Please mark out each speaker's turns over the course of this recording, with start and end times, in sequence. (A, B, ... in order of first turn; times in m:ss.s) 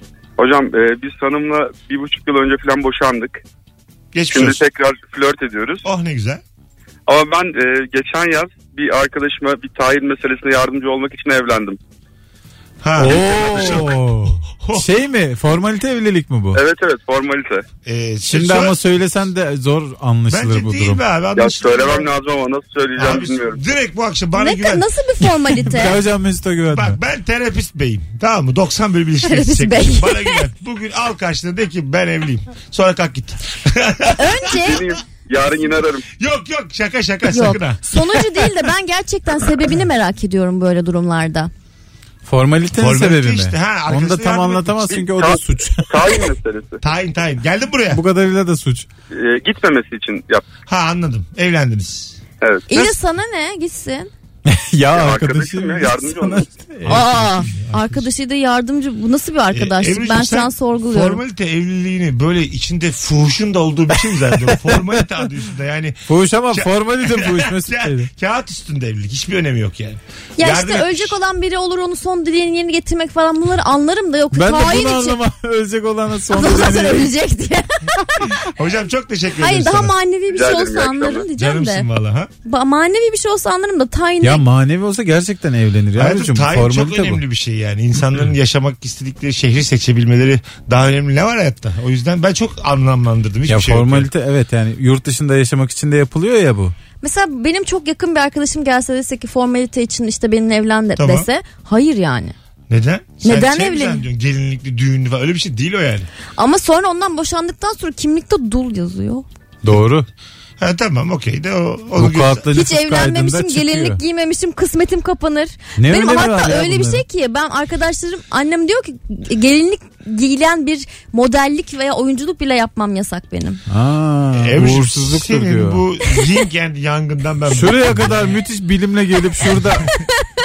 0:00.4-0:03.4 A
0:04.1-0:04.6 B
0:04.3-0:05.8 A
0:05.8-0:06.4 B
0:07.1-0:11.8 A
0:12.8-0:14.9 B
0:13.0-0:16.6 C
0:16.6-0:17.6 A
0:17.8-0:18.8 B
0:18.3-0:21.0 C
0:20.3-0:22.1 B
0:21.4-0:23.6 A
0:23.0-0:24.9 B
0:24.4-0:26.0 D
0:25.7-0:27.0 C
0:26.7-0:34.8 B
0:29.2-0:30.4 D
0:34.2-0:34.8 D
0:34.6-0:36.0 A
0:36.2-0:37.8 B
0:37.3-0:41.5 D
0:42.3-0:46.3 C
0:42.8-0:45.0 B
0:45.9-0:46.8 A
0:46.8-0:48.0 B
0:47.9-0:48.9 C
0:49.2-0:50.4 A
0:50.7-0:52.2 B
0:52.7-0:54.1 D
0:54.5-0:57.5 C
0:54.9-0:56.5 A
0:56.8-0:58.0 B
0:56.9-1:01.2 D
0:59.5-1:11.2 B
1:06.1-1:08.1 C
1:10.4-1:15.2 D
1:14.3-1:17.1 C
1:16.3-1:18.3 D
1:18.4-1:19.9 B
1:19.4-1:21.9 D
1:20.3-1:21.2 A
1:21.4-1:22.3 B
1:22.4-1:24.4 D
1:24.2-1:27.2 C
1:26.0-1:34.1 B
1:33.5-1:36.7 C
1:37.0-1:42.4 D
1:41.0-1:41.3 B
1:42.7-1:46.1 B
1:43.2-1:44.0 D
1:46.4-1:49.3 D
1:49.6-1:50.1 C
1:50.6-1:52.5 B
1:52.0-1:54.0 C
1:52.5-2:03.6 D
1:55.8-1:57.0 C
2:03.7-2:05.8 C
2:04.4-2:08.4 B
2:07.5-2:09.9 C